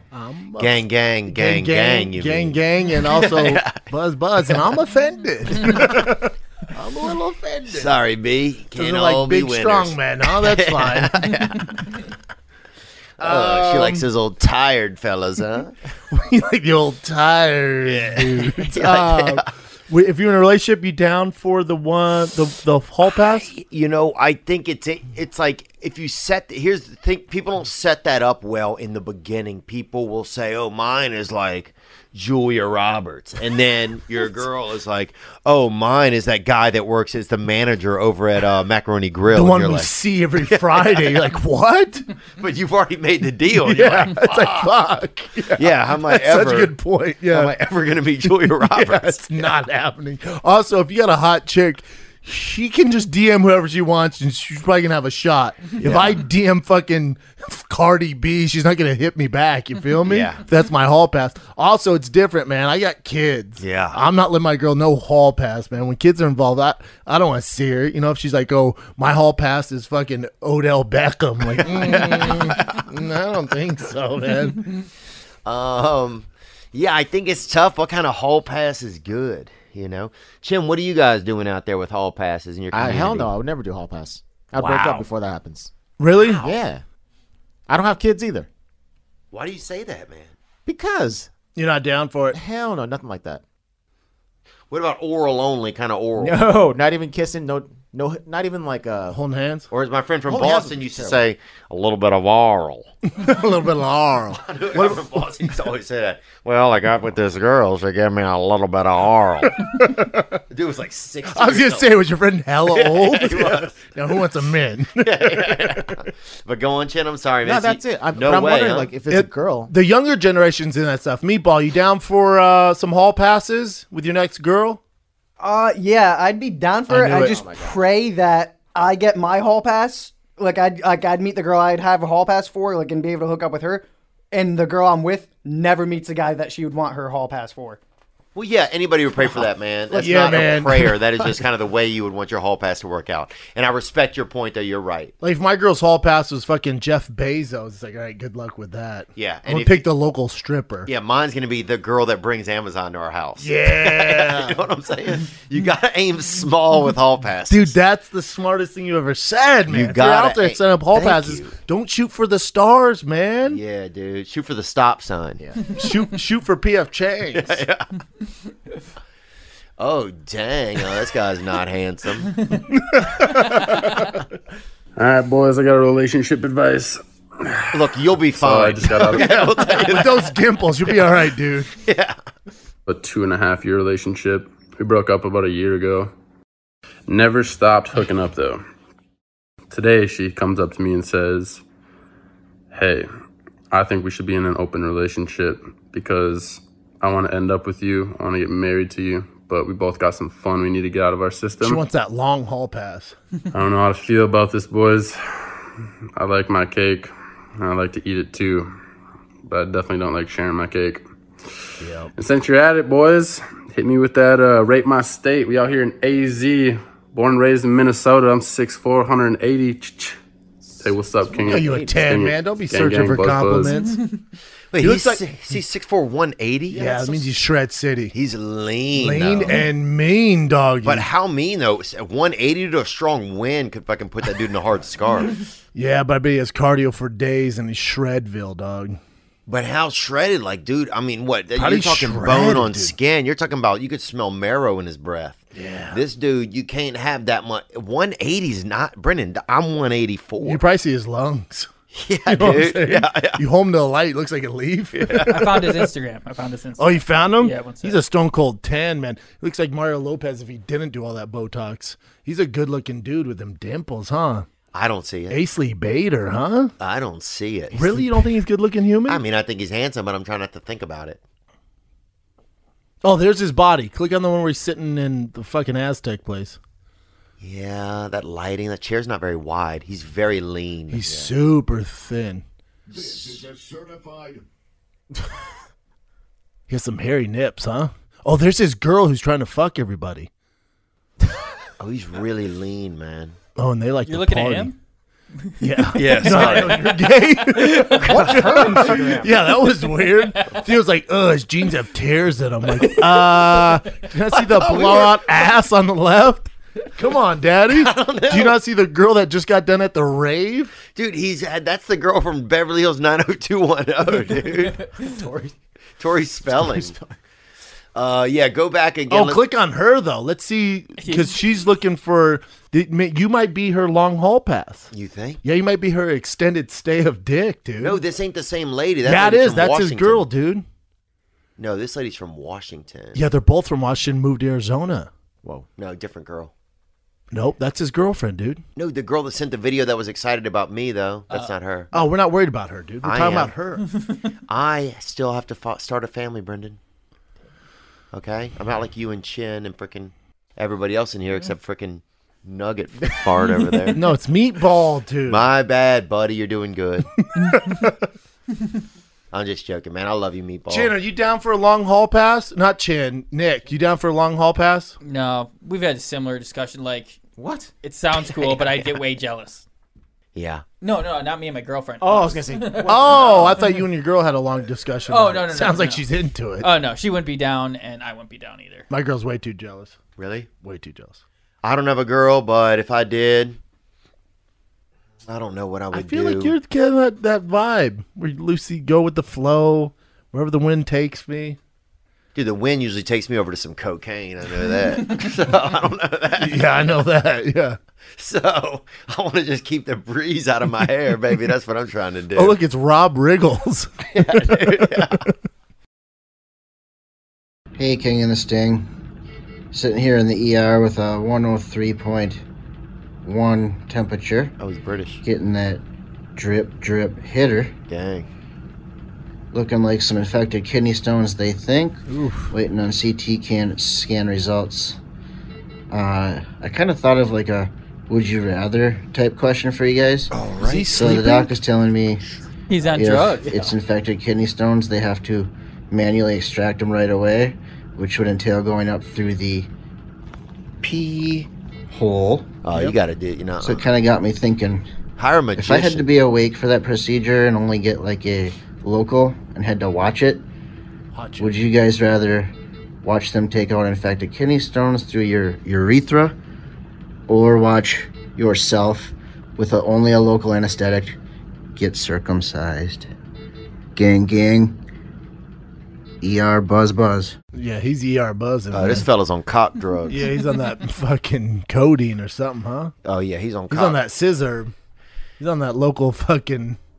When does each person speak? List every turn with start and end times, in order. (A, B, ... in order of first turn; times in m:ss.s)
0:00.1-0:08.0 A
0:00.6-0:03.9 B
0:07.7-0:11.9 B
0:08.8-0:11.1 A
0:13.2-0:15.7 B
0:13.2-0:14.0 A
0:16.1-0:23.5 A
0:17.8-0:19.5 B
0:23.2-0:39.9 B
0:39.3-0:42.1 A
0:40.4-0:41.3 B
0:42.4-0:44.7 B
0:43.6-0:47.5 A
0:45.6-0:46.8 B
0:47.3-0:49.5 B
0:48.3-1:14.7 A
0:55.8-0:56.2 B
1:00.1-1:00.4 B
1:03.6-1:04.0 B
1:11.6-1:12.8 B
1:15.4-1:23.3 B
1:22.7-1:25.7 C
1:24.6-1:25.0 B
1:26.0-1:26.4 A
1:26.4-1:26.8 C
1:27.7-1:28.5 C
1:29.3-1:30.4 B
1:30.7-1:31.3 C
1:31.6-1:32.4 A
1:32.3-1:33.4 C
1:34.7-1:36.4 B
1:36.2-1:39.2 C
1:39.1-1:39.7 A
1:39.7-1:42.9 B
1:40.3-1:41.3 C
1:43.2-1:45.2 A
1:44.4-1:49.7 B
1:49.6-1:50.4 A
1:50.5-1:51.9 B
1:51.3-1:56.0 A
1:52.7-1:53.9 B
1:55.0-1:58.9 B
1:57.4-1:59.7 C
1:59.1-2:04.8 A
2:05.4-2:17.8 D
2:06.9-2:07.4 A
2:07.1-2:07.8 C
2:18.4-2:25.1 B
2:19.9-2:20.4 D
2:20.0-2:21.3 A
2:25.2-2:30.9 A
2:29.2-2:29.9 B
2:30.9-2:37.8 B
2:33.4-2:34.6 A
2:37.5-2:43.6 A
2:39.7-2:41.6 B
2:43.5-2:45.4 B
2:45.7-2:47.6 A
2:47.3-2:47.9 B
2:49.8-2:52.4 B
2:52.7-2:54.0 A
2:55.0-2:57.0 E
2:57.7-3:00.3 B
2:58.4-2:59.4 E
2:59.7-3:01.7 A
3:01.8-3:02.2 B
3:02.9-3:06.1 E
3:07.1-3:08.6 E
3:09.7-3:11.6 E
3:12.7-3:13.1 E
3:13.7-3:21.8 E
3:21.6-3:23.2 A
3:23.5-3:25.5 E
3:26.2-3:28.7 E
3:29.5-3:31.0 E
3:31.8-3:32.1 A
3:32.2-3:40.2 E
3:40.8-3:43.7 E
3:41.3-3:41.9 C
3:41.4-3:44.0 A
3:44.7-3:46.8 B
3:44.8-3:45.3 A
3:46.7-3:48.1 A
3:46.8-3:47.2 C
3:48.1-3:49.6 B
3:49.0-3:51.1 A
3:50.8-3:55.4 B
3:55.8-3:59.0 A
3:59.5-4:10.6 B
4:01.6-4:02.9 A
4:05.5-4:06.0 A
4:10.4-4:11.7 A
4:11.9-4:13.4 B
4:12.3-4:15.8 A
4:15.0-4:15.4 B
4:15.2-4:18.0 F
4:16.8-4:24.5 A
4:24.7-4:25.4 B
4:25.3-4:26.7 A
4:26.8-4:28.2 B
4:27.7-4:29.2 A
4:29.1-4:31.2 B
4:33.0-4:36.6 A
4:37.4-4:41.3 B
4:40.9-4:42.4 A
4:43.0-4:43.4 B
4:46.7-4:50.3 A
4:51.8-4:53.4 B
4:53.6-4:54.7 A
4:54.1-4:54.8 F
4:55.4-4:57.0 F
4:55.6-5:10.8 A
4:56.0-4:57.0 B
4:57.6-4:59.3 B
4:57.6-4:57.9 F
5:00.2-5:00.5 F
5:04.4-5:05.2 B
5:07.7-5:08.6 B
5:10.9-5:14.9 B
5:15.0-5:15.6 C
5:16.0-5:17.0 B
5:16.5-5:17.2 C
5:18.0-5:19.4 B
5:19.1-5:24.9 A
5:21.0-5:21.4 F
5:24.9-5:25.4 B
5:25.4-5:28.0 A
5:27.8-5:30.3 B
5:29.0-5:30.6 A
5:31.6-5:33.2 B
5:33.1-5:35.1 A
5:35.8-5:36.5 B
5:37.3-5:38.6 A
5:38.8-5:41.9 B
5:41.9-5:43.9 A
5:43.0-5:43.5 B
5:44.5-5:46.8 B
5:48.1-5:54.0 B
5:53.9-5:55.5 A
5:55.3-5:57.1 B
5:57.2-5:58.0 A
5:59.3-6:00.9 B
6:00.7-6:05.0 A
6:05.0-6:07.2 F
6:07.4-6:07.7 C
6:07.8-6:09.7 F
6:10.4-6:10.6 B
6:10.8-6:13.6 F
6:12.0-6:13.6 C
6:12.9-6:16.7 A
6:15.1-6:16.1 F
6:16.6-6:18.9 F
6:18.9-6:20.0 A
6:20.2-6:20.5 B
6:20.6-6:21.2 A
6:21.6-6:23.6 B
6:25.3-6:26.6 B
6:25.9-6:31.6 A
6:32.4-6:36.9 B
6:36.4-6:37.8 A
6:38.2-6:42.6 B
6:42.4-6:45.3 A
6:44.1-6:45.2 B
6:47.8-6:48.9 G
6:49.7-6:52.4 G
6:53.2-6:54.6 G
6:54.6-6:55.2 B
6:55.2-6:55.8 G
6:56.4-6:57.7 G
6:57.9-6:58.3 B
6:59.5-7:05.0 G
7:02.1-7:02.5 A
7:05.9-7:10.3 G
7:10.3-7:11.0 B
7:10.6-7:11.6 A
7:10.9-7:12.2 G
7:12.7-7:13.6 F
7:12.8-7:19.7 G
7:20.8-7:22.5 G
7:22.6-7:23.9 B
7:23.6-7:24.9 G
7:25.2-7:26.1 B
7:25.6-7:30.4 G
7:31.1-7:31.6 A
7:31.4-7:36.4 G
7:37.3-7:41.2 G
7:41.8-7:43.1 G
7:44.0-7:44.8 G
7:46.2-7:47.4 G
7:47.5-7:49.1 A
7:48.7-7:50.2 B
7:50.1-7:52.9 A
7:53.0-7:54.0 B
7:53.7-7:54.7 A
7:55.4-7:56.8 A